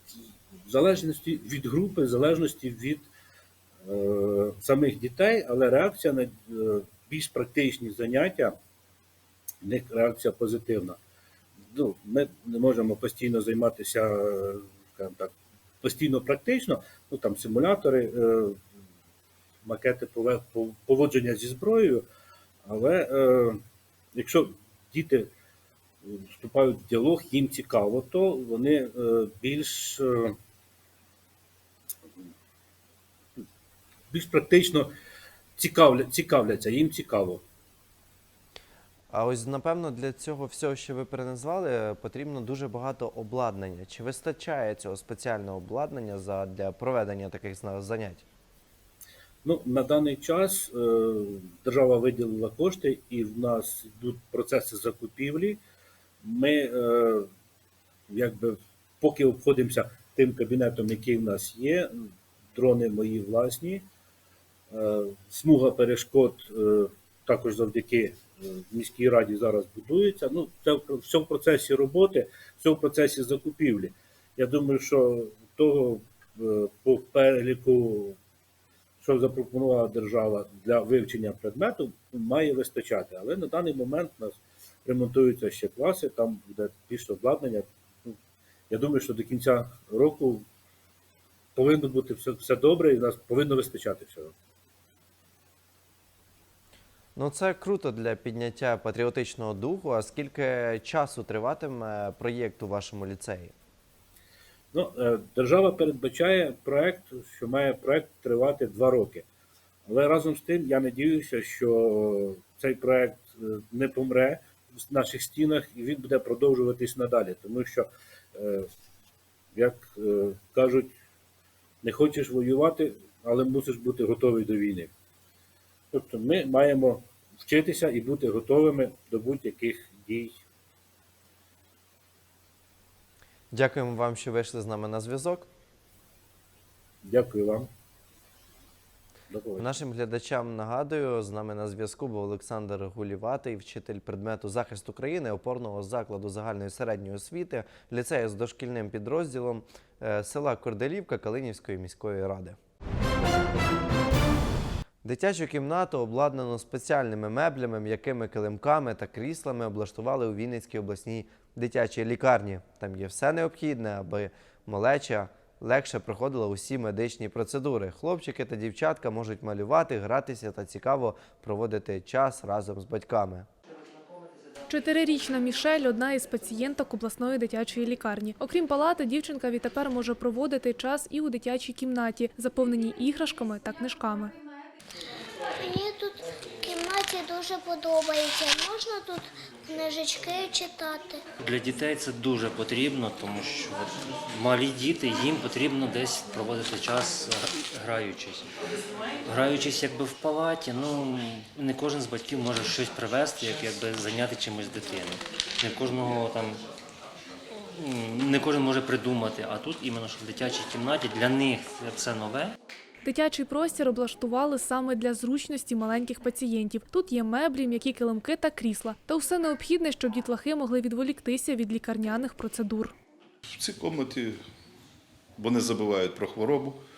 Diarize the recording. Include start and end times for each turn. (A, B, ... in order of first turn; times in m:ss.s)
0:00.7-0:03.1 A
0:03.8-0:08.6 A
0:09.6-0:11.0 A
0:11.7-0:18.6 A
0:19.6-0:22.1 A
0:22.6-0:23.6 A
0:24.2-0:25.3 A
0:26.0-0:30.3 A
0:34.1-0:34.9 A
0:35.6-0:37.4 A
0:39.1-0:48.2 B
0:49.4-0:55.6 A
0:56.2-0:57.3 A
0:58.1-1:03.8 A
1:04.7-1:18.2 A
1:19.0-1:28.2 A
1:28.7-1:30.4 A
1:31.6-1:34.3 A
1:37.2-1:43.5 B
1:44.7-1:49.2 A
1:49.9-1:58.7 A
1:59.5-2:00.9 A
2:01.8-2:04.9 A
2:05.9-2:10.3 A
2:13.5-2:15.5 B
2:17.0-2:17.7 A
2:19.3-2:19.7 A
2:19.6-2:32.6 B
2:35.0-2:53.5 B
2:54.7-3:04.4 C
3:05.6-3:11.2 D
3:11.4-3:18.5 E
3:19.3-3:26.6 E
3:27.8-3:32.5 E
3:33.0-3:43.0 C
3:43.6-3:44.4 F
3:45.4-3:46.8 F